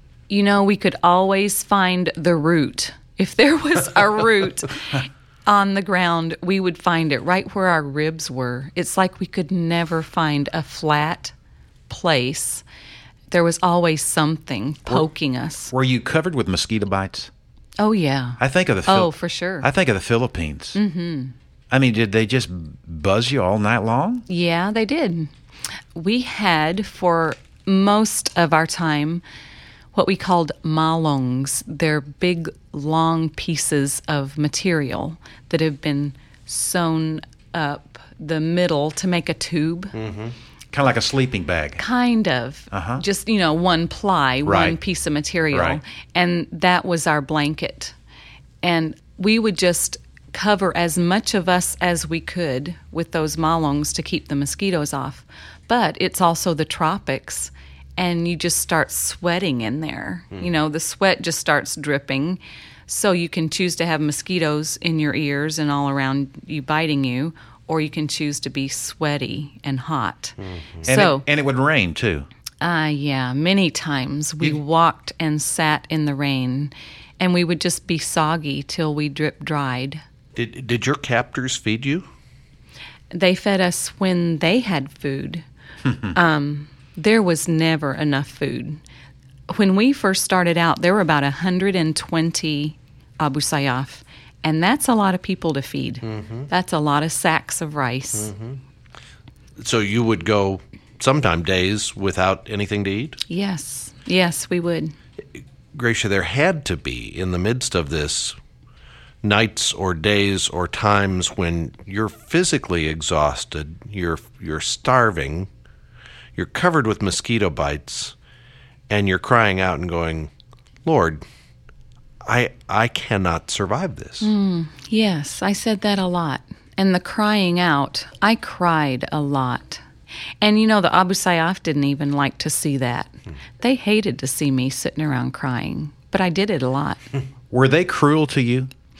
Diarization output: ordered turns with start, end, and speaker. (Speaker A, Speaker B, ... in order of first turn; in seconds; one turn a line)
Speaker A: 0.3-11.3
Speaker A: 11.9-12.6
Speaker A: 13.3-15.7
Speaker B: 15.7-17.3
Speaker A: 17.8-19.7
Speaker B: 18.4-20.8
Speaker A: 20.8-21.4
Speaker B: 21.7-24.3
Speaker A: 24.3-25.3
Speaker A: 25.9-29.2
Speaker A: 29.9-39.9
Speaker C: 39.9-40.3
Speaker B: 40.7-41.8
Speaker A: 41.8-48.0
Speaker B: 42.7-43.0
Speaker B: 44.5-44.8
Speaker B: 45.5-45.8
Speaker A: 48.6-71.2
Speaker C: 70.4-70.8
Speaker B: 70.9-72.3
Speaker A: 72.6-80.0
Speaker C: 80.4-82.1
Speaker A: 83.1-85.5
Speaker A: 86.0-88.8
Speaker A: 89.5-98.3
Speaker C: 96.1-96.5
Speaker C: 98.2-98.6
Speaker C: 99.6-103.2
Speaker A: 103.3-105.0
Speaker C: 105.7-108.4
Speaker C: 109.2-115.5
Speaker C: 116.4-118.2
Speaker C: 118.9-120.3
Speaker C: 120.8-121.2
Speaker C: 122.2-124.3
Speaker A: 124.2-129.8
Speaker A: 130.4-137.0
Speaker B: 137.5-138.7